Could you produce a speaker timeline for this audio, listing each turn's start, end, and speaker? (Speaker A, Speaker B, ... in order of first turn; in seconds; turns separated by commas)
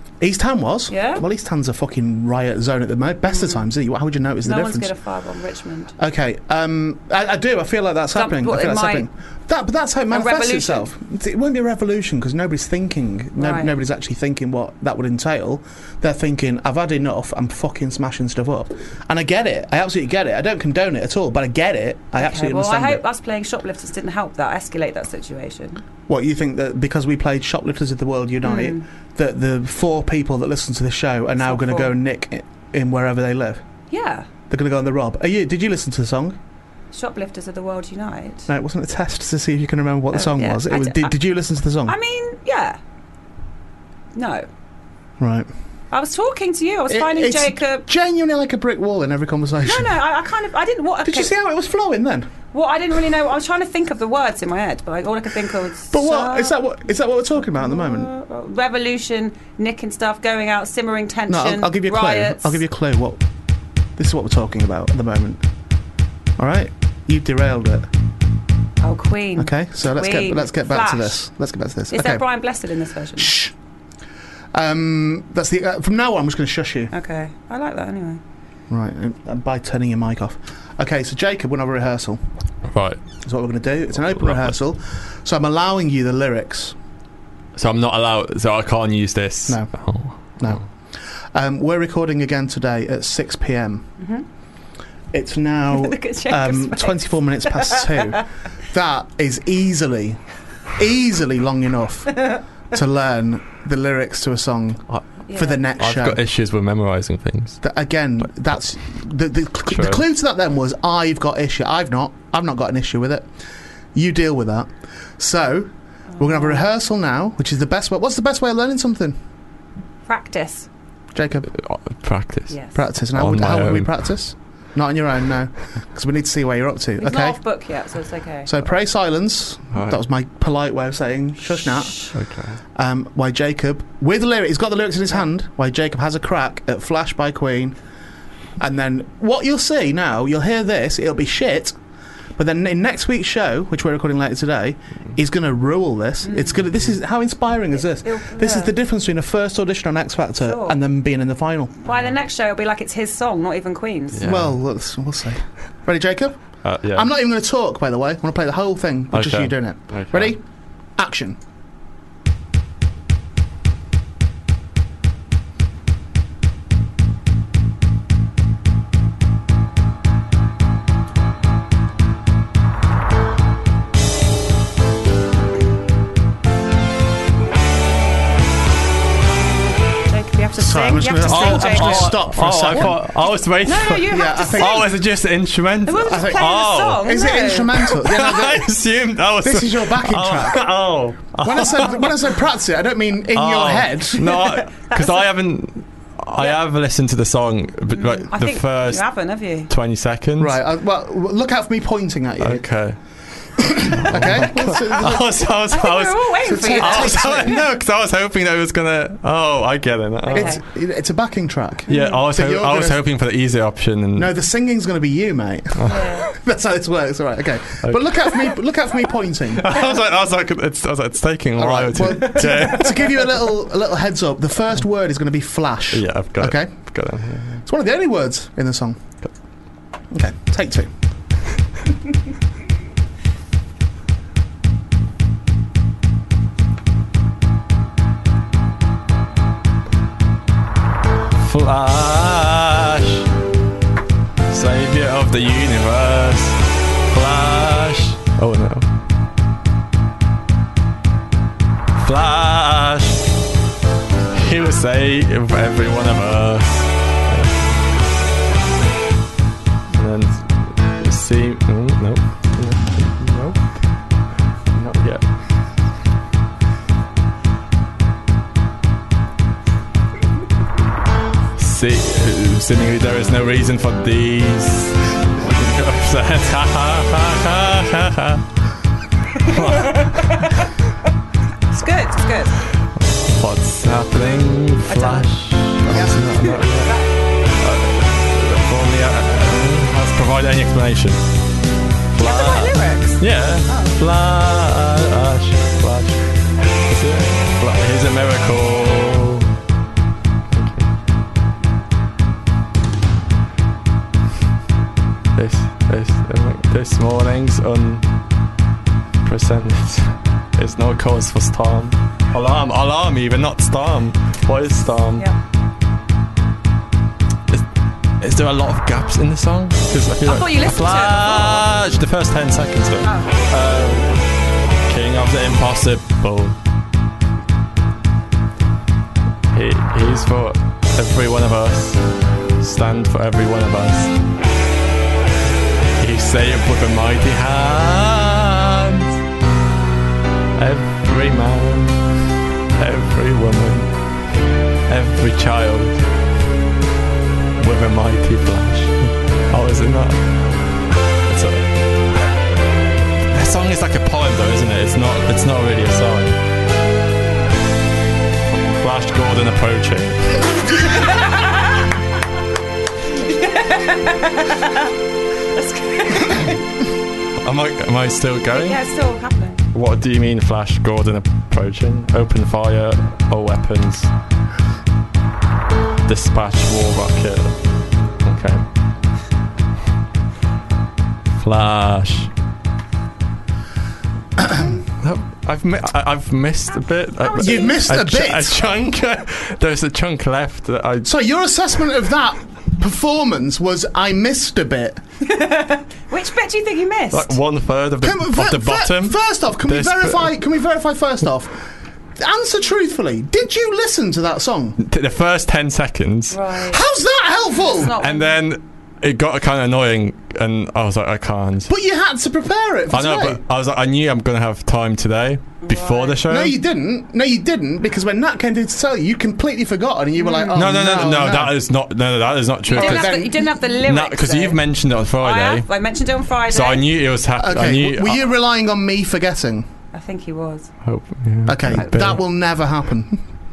Speaker A: 0.2-4.9, Speaker B: 0.9-1.2, Speaker B: 3.3-3.6, Speaker B: 4.4-5.9, Speaker A: 6.0-23.0, Speaker B: 8.1-9.1, Speaker B: 10.1-10.9, Speaker B: 13.4-13.7, Speaker B: 22.2-25.8, Speaker A: 26.1-33.6, Speaker B: 28.4-28.8, Speaker B: 31.4-31.9, Speaker B: 33.9-34.3, Speaker A: 34.5-36.4, Speaker B: 36.9-38.5, Speaker A: 38.5-42.0, Speaker B: 40.1-41.1, Speaker B: 41.9-42.8, Speaker B: 44.1-44.5, Speaker A: 45.2-45.5, Speaker B: 45.9-47.9, Speaker A: 46.9-50.0, Speaker B: 49.6-51.3, Speaker A: 51.0-52.3, Speaker B: 52.5-56.6, Speaker A: 55.9-58.1, Speaker B: 57.6-62.6, Speaker A: 61.3-63.2, Speaker A: 64.0-65.4, Speaker A: 66.4-67.9, Speaker B: 68.8-71.3, Speaker A: 69.4-72.2, Speaker B: 71.9-73.3, Speaker A: 73.2-73.5, Speaker A: 74.5-76.9, Speaker B: 76.9-78.2, Speaker A: 78.7-82.2, Speaker C: 82.7-83.0, Speaker A: 83.2-86.8, Speaker C: 84.2-84.5, Speaker C: 87.6-90.6, Speaker A: 90.4-90.6, Speaker A: 91.3-93.9, Speaker B: 94.0-94.2, Speaker A: 95.1-100.2, Speaker B: 95.7-98.2, Speaker A: 100.7-106.2, Speaker B: 105.3-105.6, Speaker C: 105.8-107.6, Speaker A: 107.6-113.3, Speaker C: 109.7-110.0, Speaker A: 113.9-119.2, Speaker B: 116.2-116.7, Speaker B: 120.1-120.7, Speaker A: 121.1-121.5, Speaker C: 121.5-122.6, Speaker B: 122.5-122.8, Speaker A: 122.7-127.4, Speaker C: 123.1-124.0, Speaker B: 127.0-128.5, Speaker A: 128.5-132.1, Speaker C: 129.7-130.0, Speaker B: 131.6-132.1, Speaker C: 132.1-132.6, Speaker A: 132.8-137.8, Speaker A: 138.6-141.8, Speaker A: 142.4-151.8, Speaker B: 146.2-146.7, Speaker B: 147.7-148.7, Speaker B: 150.4-150.8, Speaker B: 151.8-154.2, Speaker C: 154.1-154.6, Speaker A: 154.2-160.4, Speaker C: 156.6-157.1, Speaker C: 159.1-160.3, Speaker A: 161.0-161.4, Speaker B: 180.1-182.2, Speaker A: 180.6-183.1, Speaker C: 181.3-187.0, Speaker B: 183.7-184.9, Speaker A: 184.1-184.9, Speaker B: 185.9-187.8, Speaker A: 186.1-188.7, Speaker C: 187.7-192.2, Speaker A: 189.4-190.7, Speaker A: 191.4-194.5, Speaker C: 193.3-199.0, Speaker B: 194.9-195.2, Speaker B: 197.9-199.7, Speaker C: 199.7-200.6, Speaker A: 200.4-202.7, Speaker C: 202.4-203.0, Speaker A: 203.6-205.4, Speaker C: 204.1-210.6, Speaker B: 204.7-207.7, Speaker A: 206.5-207.6, Speaker B: 210.2-210.6, Speaker A: 210.3-213.0, Speaker B: 211.9-212.2, Speaker C: 211.9-214.3, Speaker A: 214.2-219.7, Speaker C: 215.8-216.2, Speaker B: 215.9-216.3, Speaker C: 217.8-218.5, Speaker C: 219.6-223.4, Speaker A: 221.6-226.9, Speaker C: 225.9-227.6, Speaker A: 227.6-229.0, Speaker A: 230.1-230.9, Speaker C: 241.4-243.3, Speaker C: 244.5-248.9, Speaker C: 252.0-253.3, Speaker C: 254.3-257.9, Speaker C: 259.9-263.9, Speaker C: 264.7-265.3, Speaker C: 271.6-278.4, Speaker C: 279.4-280.5, Speaker B: 279.5-280.7, Speaker B: 281.7-282.6, Speaker C: 283.2-286.9, Speaker B: 284.9-285.3, Speaker A: 285.8-286.6, Speaker B: 285.9-287.0, Speaker C: 287.5-291.3, Speaker C: 292.1-299.5, Speaker B: 292.2-294.0, Speaker C: 300.5-300.9, Speaker C: 305.4-308.1, Speaker C: 309.2-315.3, Speaker C: 318.2-326.6, Speaker B: 320.2-321.7, Speaker B: 323.0-323.4, Speaker C: 329.5-332.1, Speaker C: 332.6-334.1, Speaker C: 336.0-339.2, Speaker C: 340.6-342.0, Speaker C: 342.8-343.9, Speaker C: 344.9-346.0, Speaker C: 347.6-350.2, Speaker C: 351.3-351.7, Speaker C: 353.3-356.4, Speaker C: 358.7-360.7, Speaker B: 361.0-361.5, Speaker B: 363.2-364.9, Speaker B: 365.5-366.6, Speaker C: 367.4-368.8, Speaker B: 368.5-369.6, Speaker C: 369.7-374.1, Speaker C: 376.1-377.6, Speaker C: 378.2-378.6, Speaker C: 381.4-382.3, Speaker A: 384.4-384.8, Speaker C: 385.0-391.1, Speaker B: 387.2-387.8, Speaker A: 387.4-388.7, Speaker A: 391.1-395.0, Speaker B: 395.2-397.4, Speaker C: 397.1-400.4, Speaker A: 398.0-401.6, Speaker A: 402.2-404.8, Speaker C: 404.8-406.4, Speaker B: 406.3-406.8, Speaker A: 406.5-408.0, Speaker B: 407.8-408.4, Speaker C: 408.0-411.7, Speaker A: 411.7-413.4, Speaker C: 412.9-416.6, Speaker B: 415.6-416.2, Speaker A: 416.2-421.6, Speaker B: 420.2-420.7, Speaker C: 420.5-425.7, Speaker B: 422.7-424.6, Speaker A: 422.7-423.4, Speaker B: 425.2-426.9, Speaker C: 426.5-428.3, Speaker A: 427.4-429.7, Speaker B: 429.9-430.7, Speaker C: 430.8-432.2, Speaker A: 431.5-433.2, Speaker B: 431.7-432.0